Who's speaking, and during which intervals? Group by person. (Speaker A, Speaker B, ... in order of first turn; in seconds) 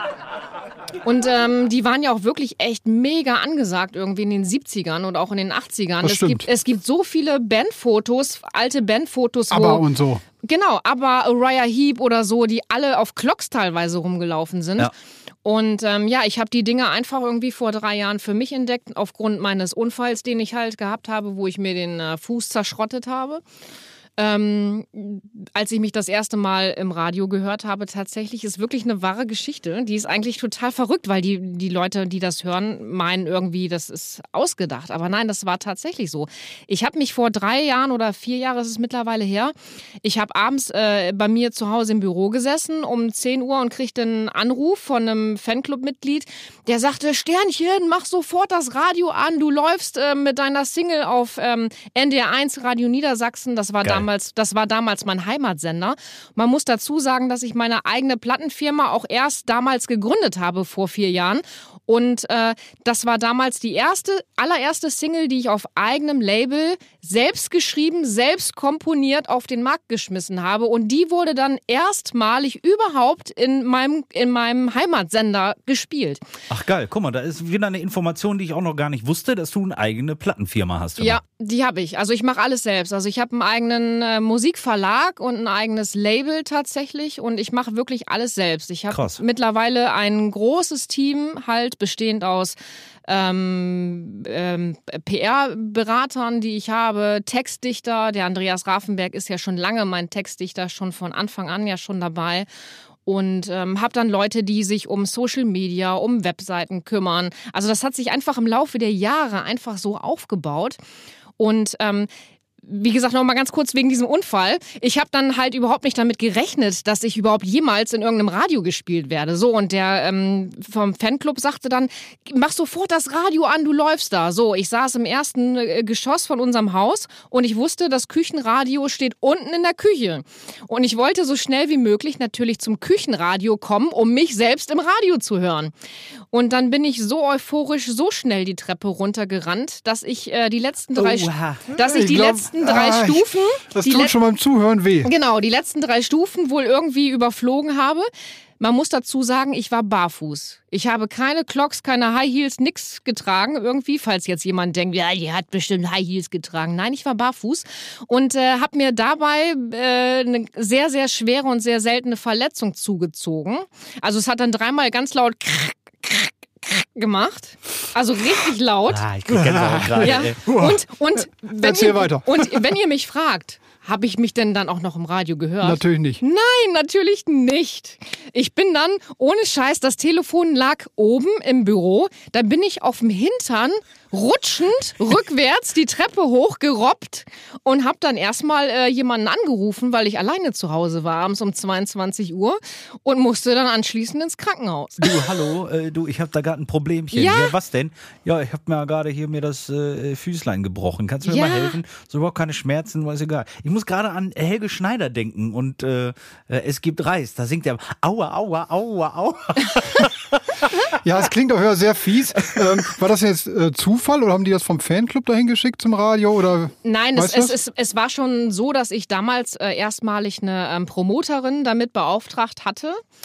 Speaker A: 1.0-9.9, 10.4-14.9, 15.4-23.4, 24.2-76.2, 81.0-102.5, 103.0-110.8, 111.4-112.1, 112.6-135.7, 136.3-144.1, 145.0-148.1, 148.6-169.0, 170.0-195.3, 197.1-197.5, 201.2-201.8, 216.8-223.0
Speaker B: 6.0-6.5, 9.5-10.2, 141.7-145.1, 169.3-172.6, 175.6-176.2, 210.9-217.6
Speaker C: 76.5-81.2, 88.9-89.2, 140.9-141.7, 168.9-170.4, 195.0-210.4